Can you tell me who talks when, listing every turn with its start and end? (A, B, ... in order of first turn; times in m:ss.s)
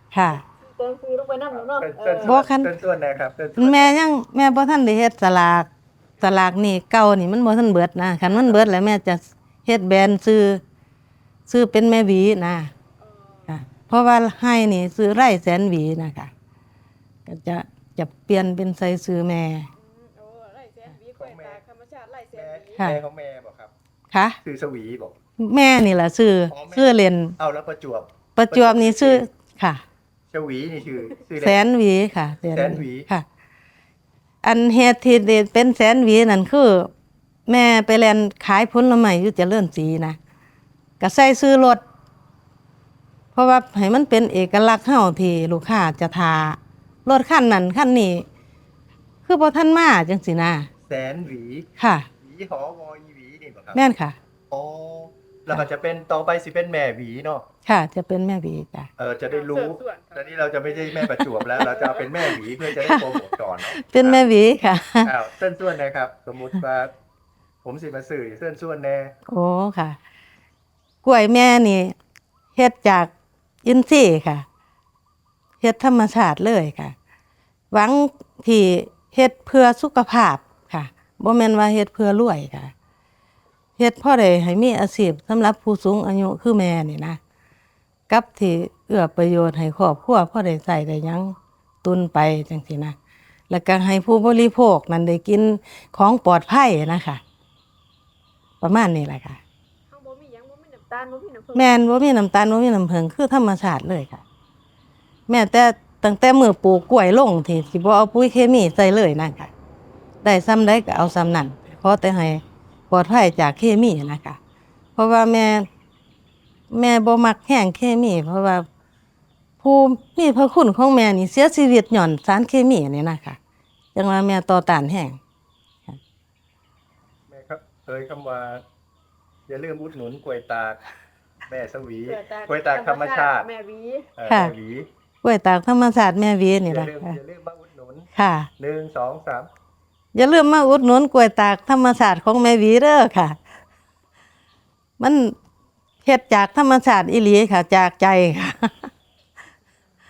0:00.1-0:00.4 A
0:00.3-0:02.4 B
0:01.5-0:03.9 C
0:02.2-0:02.7 A
0:03.6-0:05.7 A
0:06.2-0:10.6 A
0:11.5-0:12.7 A
0:13.0-0:13.6 B
0:13.5-0:16.3 A
0:17.3-0:19.7 A
0:19.8-0:22.8 B
0:21.2-0:21.6 C
0:22.3-0:23.7 C
0:24.1-0:24.4 A
0:24.4-0:25.2 C
0:25.4-0:27.4 A
0:26.5-0:29.3 C
0:28.4-0:29.8 A
0:30.3-0:31.6 C
0:31.4-0:33.3 A
0:32.5-0:33.1 C
0:34.4-0:36.9 A
0:37.5-0:40.2 A
0:41.0-0:41.8 A
0:43.4-0:48.3 A
0:49.3-0:50.7 A
0:50.9-0:51.7 C
0:51.8-0:52.1 A
0:52.2-0:53.8 C
0:53.7-0:54.2 A
0:54.5-0:57.5 C
0:57.7-0:58.9 A
0:59.0-1:04.2 C
0:59.3-1:02.3 B
1:02.7-1:05.1 A
1:05.0-1:06.9 C
1:07.6-1:09.2 C
1:09.3-1:10.0 A
1:11.0-1:12.0 A
1:12.6-1:13.1 A
1:13.6-1:14.5 A
1:15.6-1:17.0 A
1:17.7-1:22.7 A
1:23.8-1:27.2 A
1:28.1-1:33.0 A
1:33.5-1:37.2 A
1:38.6-1:39.4 A
1:39.9-1:41.7 B
1:41.6-1:44.2 A
1:45.3-1:49.5 A
1:50.2-1:54.4 A
1:55.0-1:55.7 A
1:56.7-1:58.7 A
1:59.6-2:03.4 A
2:04.0-2:05.2 A
2:07.3-2:08.6 C
2:09.5-2:10.8 C
2:11.5-2:13.5 C
2:12.1-2:14.1 B
2:14.2-2:14.9 C
2:14.3-2:14.5 A
2:15.2-2:17.2 A
2:16.7-2:19.5 C
2:18.2-2:18.5 A
2:20.2-2:23.4 A
2:25.0-2:25.4 A
2:26.0-2:28.9 A